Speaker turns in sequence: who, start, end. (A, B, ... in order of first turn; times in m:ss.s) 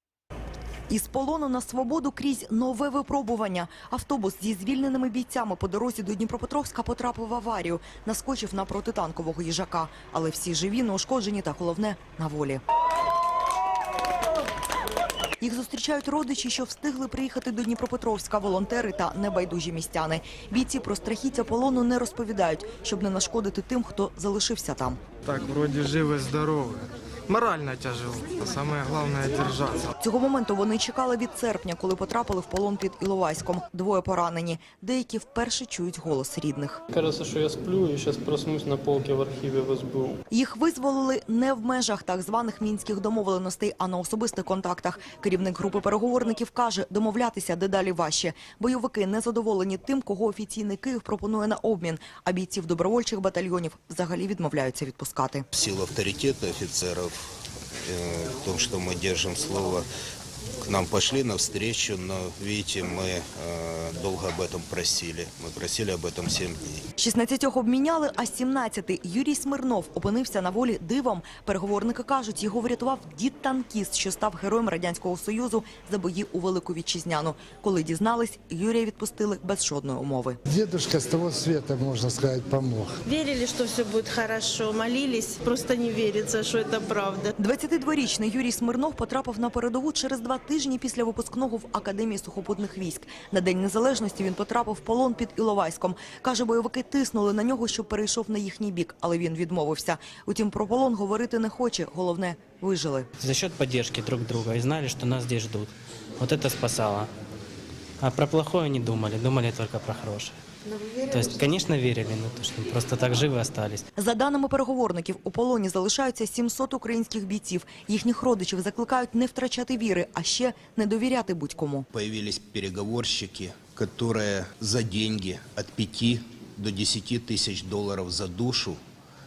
0:00.9-0:12.6 A
0:15.4-0:25.0 A
0:25.3-0:29.9 B
0:30.0-0:36.8 A
0:36.9-0:40.2 C
0:40.3-0:55.5 A
0:55.5-0:57.2 D
0:57.8-0:59.9 D
1:00.6-1:06.8 D
1:07.0-1:20.4 A
1:20.5-1:23.0 E
1:23.1-1:27.4 F
1:27.4-1:43.1 A
1:43.2-1:47.1 G
1:48.0-1:50.4 G
1:50.7-1:51.1 F
1:51.1-1:53.8 G
1:54.0-2:01.9 A
2:01.9-2:08.8 D